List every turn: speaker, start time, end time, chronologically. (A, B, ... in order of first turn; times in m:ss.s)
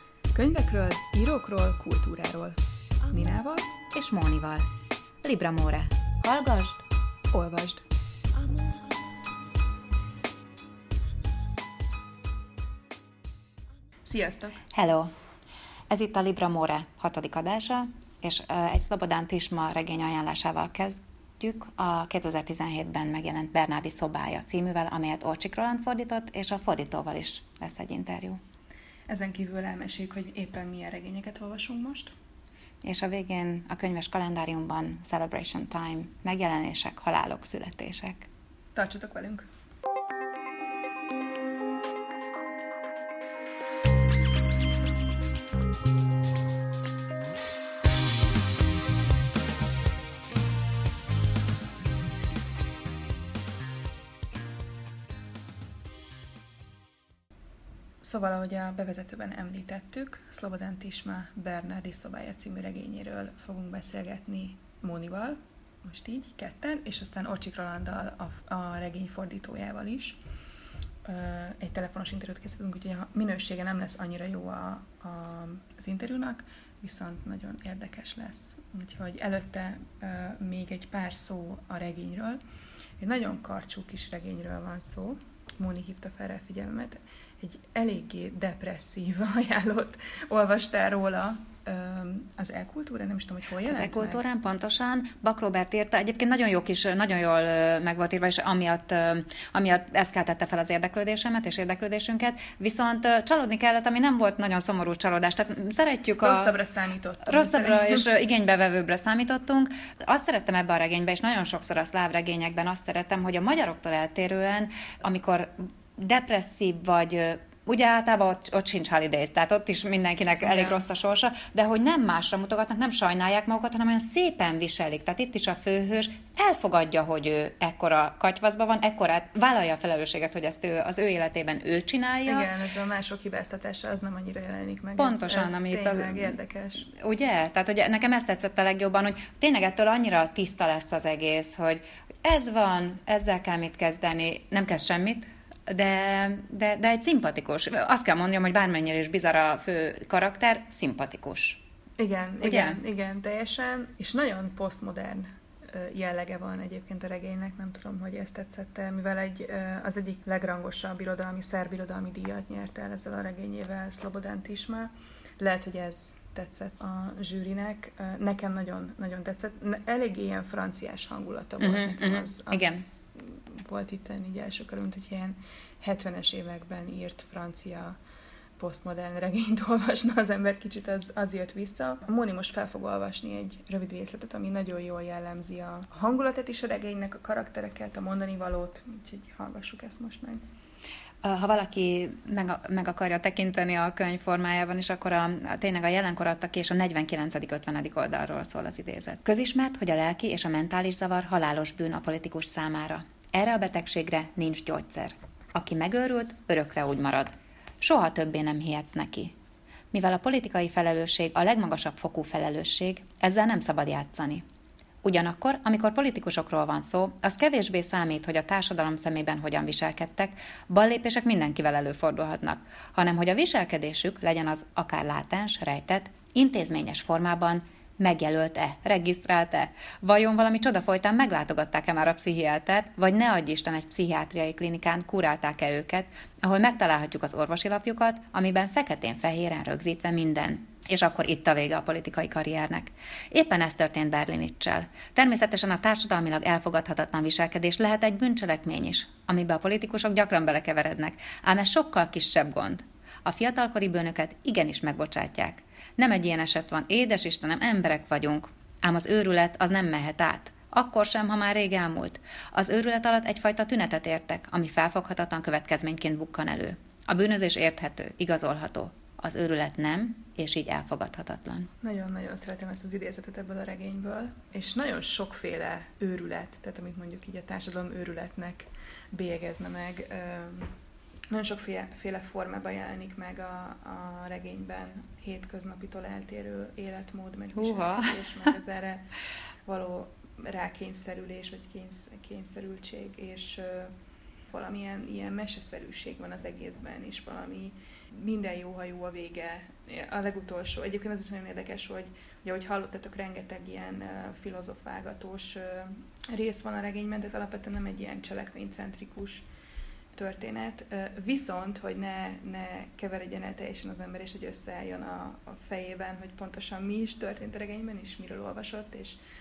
0:00.3-0:02.6 A
0:03.1-0:03.7 A
0:03.9-0:04.7 B
0:05.2-0:06.8 B
0:07.3-0:07.8 A
0:14.0-0:14.7 A
0:14.7-0:15.1 B
0:15.9-0:28.4 B
0:29.1-0:32.1 A
0:32.8-0:38.3 B
0:38.7-0:39.4 A
0:58.0-1:10.2 A
1:11.0-1:22.4 A
1:23.0-1:34.2 A
1:33.7-1:46.5 B
1:46.2-1:48.1 A
1:47.2-2:12.5 B
2:00.4-2:00.8 A
2:12.2-2:16.8 A
2:15.0-2:31.6 B
2:32.0-2:58.0 A
2:32.4-2:32.8 B
2:51.6-2:52.8 B
2:58.6-3:10.4 A
3:11.2-3:29.3 B
3:29.9-3:34.4 B
3:35.0-4:31.7 B
4:31.8-4:40.7 A
4:41.3-4:49.1 A
4:47.5-4:48.2 B
4:49.6-4:54.0 A
4:54.5-5:09.4 A
5:10.1-5:19.2 A